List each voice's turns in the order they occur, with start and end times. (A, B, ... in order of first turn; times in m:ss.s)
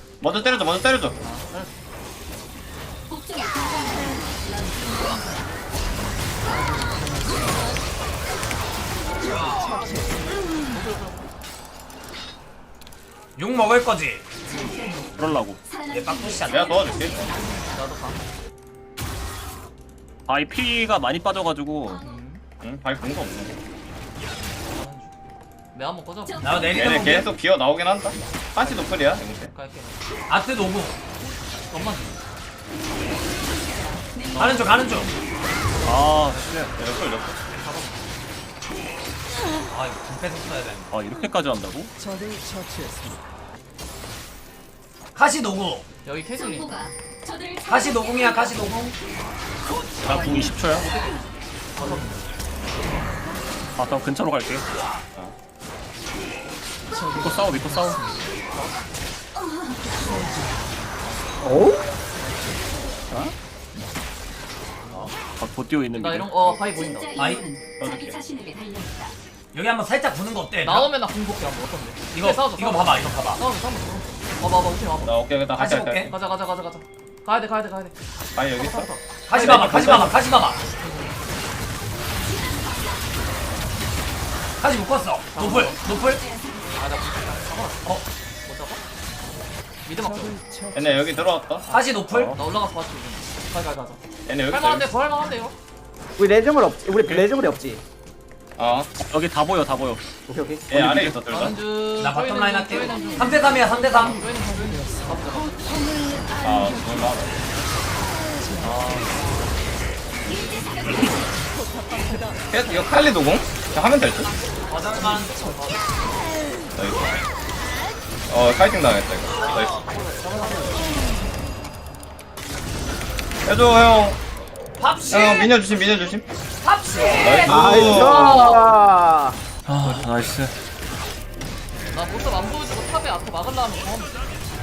0:00.2-0:01.2 A
0:01.2-0:01.8 B
0:10.7-0:11.3 B
0:13.4-0:14.2 C
0:15.2-0:15.6 D
0:15.8-0:16.8 C
0:16.5-0:17.3 A
0:17.7-0:18.2 B
0:20.3-0:22.0 D
0:21.9-0:22.4 B
0:22.6-0:23.6 A
0:24.7-0:25.1 B
0:25.7-0:26.7 B
0:26.4-0:27.3 C
0:26.7-0:29.5 A
0:28.6-0:30.0 B
0:30.3-0:31.0 C
0:31.7-0:32.2 B
0:34.3-0:35.0 B
0:34.3-0:35.1 C
0:35.7-0:36.6 B
0:35.8-0:36.7 D
0:36.7-0:37.4 A
0:37.5-0:38.1 B
0:39.7-0:40.9 C
0:40.9-0:41.9 D
0:45.1-0:45.8 C
0:46.0-0:46.9 B
0:47.6-0:48.9 C
0:50.0-0:50.9 D
0:50.8-0:51.2 B
0:51.7-0:52.2 B
0:53.8-0:54.6 D
0:57.2-0:58.0 D
0:58.5-0:58.8 B
1:01.4-1:01.8 E
1:05.4-1:06.6 D
1:05.9-1:07.1 B
1:07.2-1:07.4 C
1:07.8-1:08.2 A
1:09.5-1:10.9 C
1:10.6-1:15.1 B
1:12.1-1:13.4 C
1:15.0-1:16.1 A
1:15.6-1:16.1 C
1:16.0-1:20.1 B
1:18.3-1:20.2 A
1:19.3-1:20.6 C
1:20.8-1:21.2 B
1:24.6-1:26.2 C
1:25.3-1:26.0 B
1:26.7-1:28.8 B
1:29.8-1:30.4 B
1:30.7-1:31.6 A
1:31.7-1:32.3 C
1:31.7-1:35.5 B
1:32.1-1:32.4 D
1:34.2-1:34.9 A
1:36.2-1:37.8 E
1:38.6-1:38.9 A
1:39.0-1:40.0 D
1:40.3-1:40.6 E
1:40.7-1:41.6 A
1:40.7-1:41.2 D
1:41.2-1:45.6 B
1:42.0-1:44.2 C
1:46.4-1:47.3 A
1:48.6-1:49.1 B
1:52.5-1:54.3 A
1:54.7-1:55.3 C
1:54.9-1:55.9 B
1:56.8-1:57.1 A
1:58.3-1:59.8 A
1:59.4-2:00.8 B
2:03.4-2:04.2 A
2:04.8-2:05.5 C
2:05.1-2:06.2 A
2:06.6-2:07.8 C
2:07.2-2:08.6 A
2:07.4-2:09.4 E
2:07.7-2:08.7 B
2:09.6-2:10.5 D
2:09.8-2:10.3 A
2:11.9-2:14.2 B